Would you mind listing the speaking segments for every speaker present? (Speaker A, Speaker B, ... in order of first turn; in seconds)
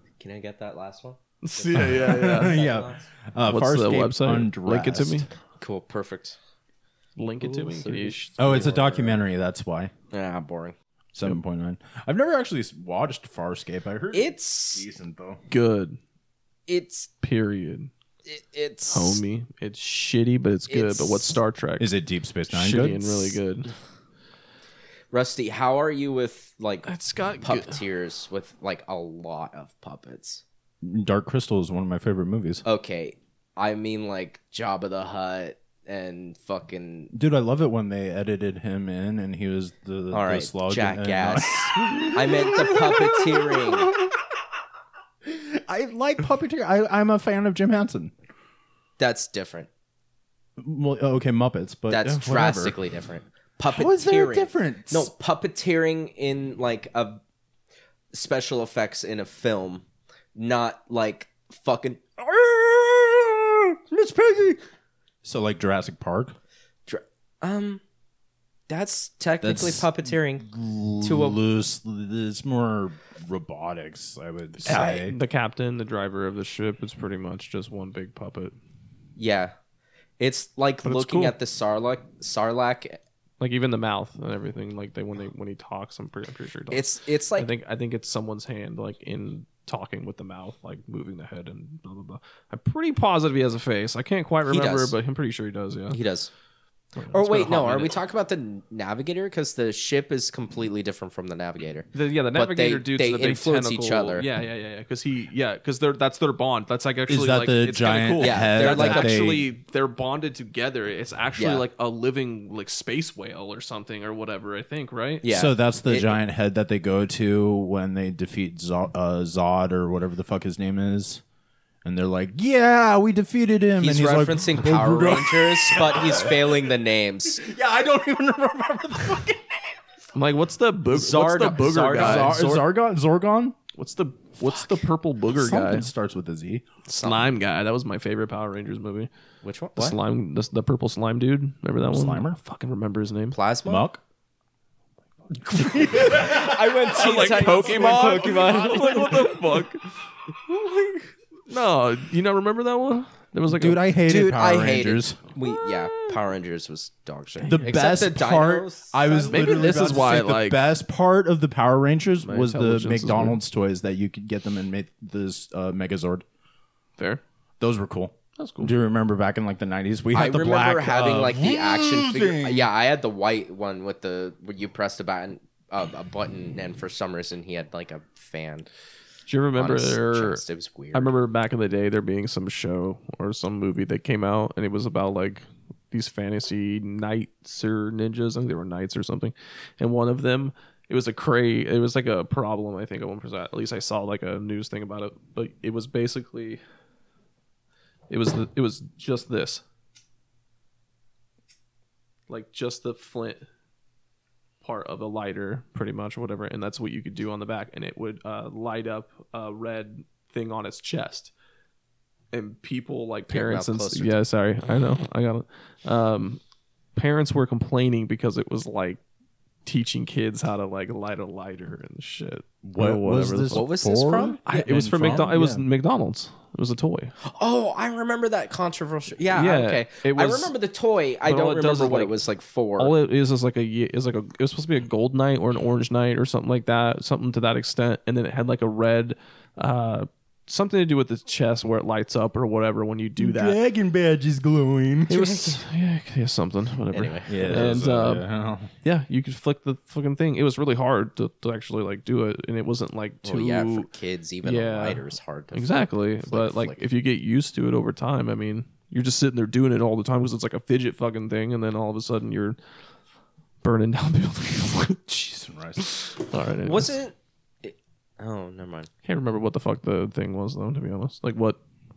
Speaker A: 0.2-3.1, 5.6-6.4, 7.4-8.8, 10.1-10.8, 14.1-14.8, 16.7-17.1, 18.2-19.2, 20.7-21.3, 25.1-26.9, 27.4-30.4, 32.6-37.1, 40.1-43.9, 49.0-49.7, 51.9-57.2, 58.1-64.6, 66.9-67.8, 68.7-70.4, 71.0-71.4, 74.7-75.0, 79.2-79.5, 80.2-83.0, 86.7-87.5, 94.5-94.9, 95.9-96.3, 97.1-104.2, 108.2-109.4, 111.4-111.7, 115.2-116.2, 123.8-127.4, 130.9-132.7, 134.4-134.8, 136.9-137.4, 139.4-140.0, 143.3-143.8, 145.8-149.4, 154.0-160.3, 170.1-178.7, 179.5-181.2, 213.3-214.2, 223.5-224.4, 227.2-232.9, 245.2-245.6, 246.9-247.8, 253.2-256.8, 266.6-268.9
Speaker B: 1.4-2.6, 3.5-5.3, 7.2-9.1, 15.5-16.0, 17.2-17.9, 18.9-21.9, 22.5-23.7, 26.9-27.8, 74.6-78.5, 83.4-96.0, 97.0-98.0, 101.9-115.2, 130.1-132.4, 133.8-135.9, 136.9-139.1, 139.8-143.4, 146.0-149.8, 150.5-153.8, 159.3-160.7, 162.2-163.4, 168.4-168.7, 179.3-180.4, 180.9-196.6, 198.1-199.6, 202.3-203.4, 204.6-211.3, 212.3-216.4, 216.9-219.0, 219.7-223.7, 224.4-227.1, 229.3-230.5, 231.2-232.2, 232.8-243.6, 245.1-248.2, 248.8-253.9, 254.4-262.6, 263.6-265.1, 265.8-266.9, 269.0-271.6
Speaker C: 1.7-5.2, 8.4-9.9, 11.1-15.4, 21.8-23.4, 30.8-32.6, 37.1-44.1, 45.2-48.1, 50.6-52.8, 53.7-55.1, 65.2-66.4, 69.4-75.2, 80.8-81.3, 107.1-109.5, 115.3-121.2, 121.8-126.4, 127.4-129.6, 131.9-133.6, 135.3-136.7, 141.9-142.4, 143.7-144.0, 145.3-149.4, 153.5-155.2, 157.4-166.2, 167.6-172.7, 222.6-225.6, 243.2-245.4, 247.3-248.7, 265.1-265.9